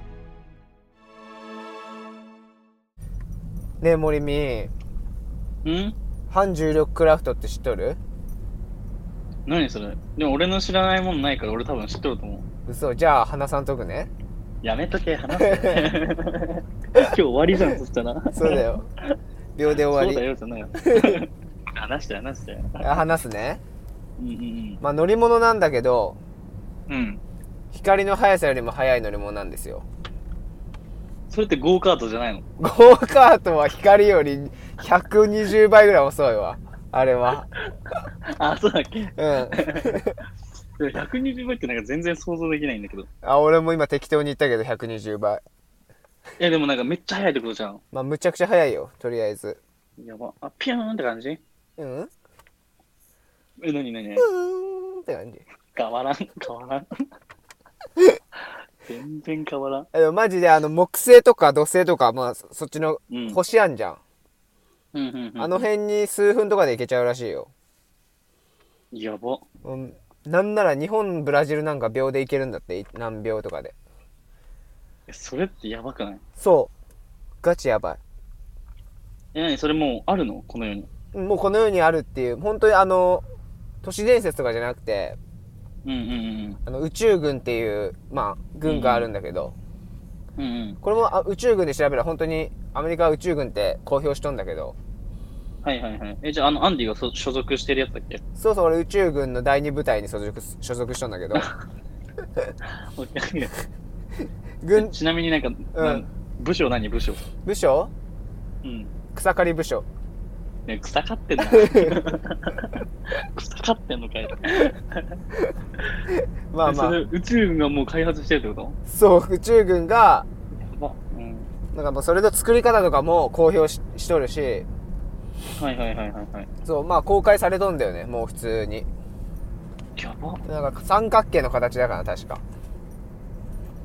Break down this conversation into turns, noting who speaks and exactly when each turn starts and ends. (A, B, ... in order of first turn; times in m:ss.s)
0:03.8-0:04.7 A
0:05.6-0:06.0 B
0:06.3-0:08.0 A
0:09.5-0:12.5 B
0:12.6-0:14.1 A
0:14.6-0:18.6 B
0:15.4-0:15.8 A
0:18.3-0:18.9 A
0:19.6-0:20.2 A
0:19.9-0:22.9 B
0:22.8-0:23.6 A
0:24.2-0:24.8 B
0:24.8-0:26.2 A
0:26.9-0:27.2 B
0:27.7-0:29.8 A
0:31.3-0:32.4 B
0:32.6-0:37.5 A
0:38.2-0:39.9 B
0:39.2-0:40.2 A
0:40.8-0:43.1 B
0:43.2-0:45.4 A
0:46.4-0:47.8 B
0:47.9-0:49.6 A
0:50.0-0:51.4 B
0:51.8-0:52.1 A
0:53.6-0:54.3 B
0:54.2-0:55.4 A
0:55.7-0:56.8 B
0:58.9-0:59.9 B
0:59.9-1:04.0 A
1:03.1-1:03.4 B
1:04.9-1:05.7 B
1:05.4-1:07.5 A
1:08.9-1:09.4 B
1:09.6-1:13.7 A
1:15.1-1:16.2 B
1:16.4-1:16.7 A
1:17.4-1:18.0 A
1:19.3-1:20.9 B
1:21.1-1:23.2 A
1:23.8-1:25.2 A
1:25.8-1:26.6 B
1:26.6-1:29.5 A
1:28.6-1:29.1 B
1:30.4-1:30.8 B
1:30.8-1:34.8 A
1:35.6-1:38.2 B
1:38.4-1:41.5 A
1:42.9-1:43.5 B
1:44.6-1:45.0 A
1:44.7-1:47.2 B
1:45.7-1:46.0 A
1:47.4-1:47.9 A
1:48.6-1:48.9 B
1:49.1-1:49.8 A
1:50.7-1:55.2 B
1:56.5-1:57.0 A
1:56.6-1:58.8 B
1:58.9-2:00.2 A
2:00.6-2:01.5 B
2:01.7-2:04.6 A
2:05.6-2:06.5 B
2:06.6-2:08.9 A
2:10.0-2:10.4 B
2:10.4-2:12.4 A